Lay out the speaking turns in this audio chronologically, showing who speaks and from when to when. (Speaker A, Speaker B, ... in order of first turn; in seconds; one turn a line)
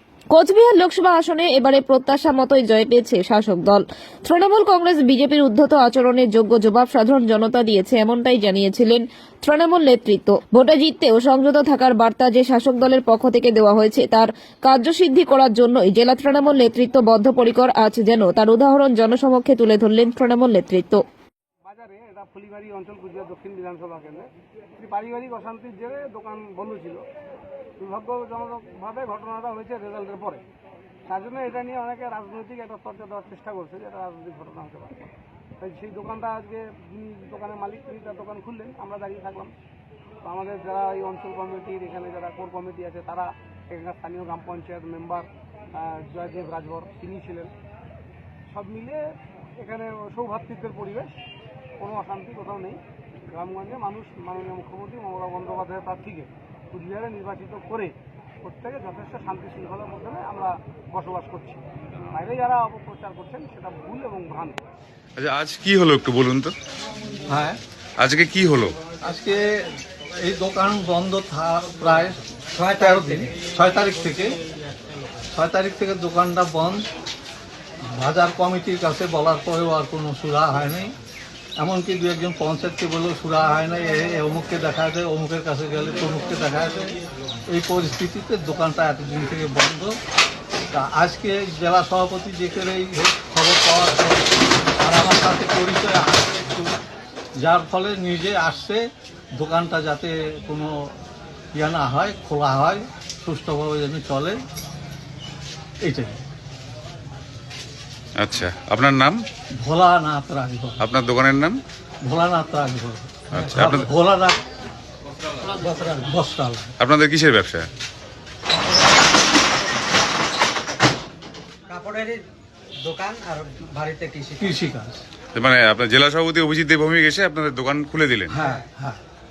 Speaker A: 0.3-21.0
Speaker B: 21.7-27.0
Speaker B: 27.8-30.4
Speaker B: 31.1-39.5
Speaker B: 40.2-47.5
Speaker B: 48.5-49.0
Speaker B: 49.6-51.1
Speaker B: 51.8-52.8
Speaker B: 53.3-64.6
Speaker C: 65.2-66.5
Speaker D: 67.3-67.6
Speaker C: 68.0-68.8
Speaker D: 69.0-74.4
Speaker E: 72.5-73.4
Speaker D: 75.3-76.8
Speaker D: 77.8-80.9
Speaker D: 81.6-87.0
Speaker D: 87.5-90.0
Speaker D: 90.7-96.8
Speaker D: 97.4-98.8
Speaker D: 99.4-100.7
Speaker D: 101.5-104.4
Speaker D: 105.8-106.2
Speaker C: 108.2-109.2
Speaker D: 109.6-110.8
Speaker C: 110.8-111.6
Speaker D: 112.0-114.4
Speaker C: 113.3-113.9
Speaker E: 115.5-116.1
Speaker D: 116.0-116.7
Speaker C: 116.8-117.7
Speaker E: 121.7-122.2
Speaker E: 122.8-124.6
Speaker D: 124.4-125.0
Speaker C: 125.3-128.4
Speaker D: 128.3-129.0
Speaker E: 128.4-128.7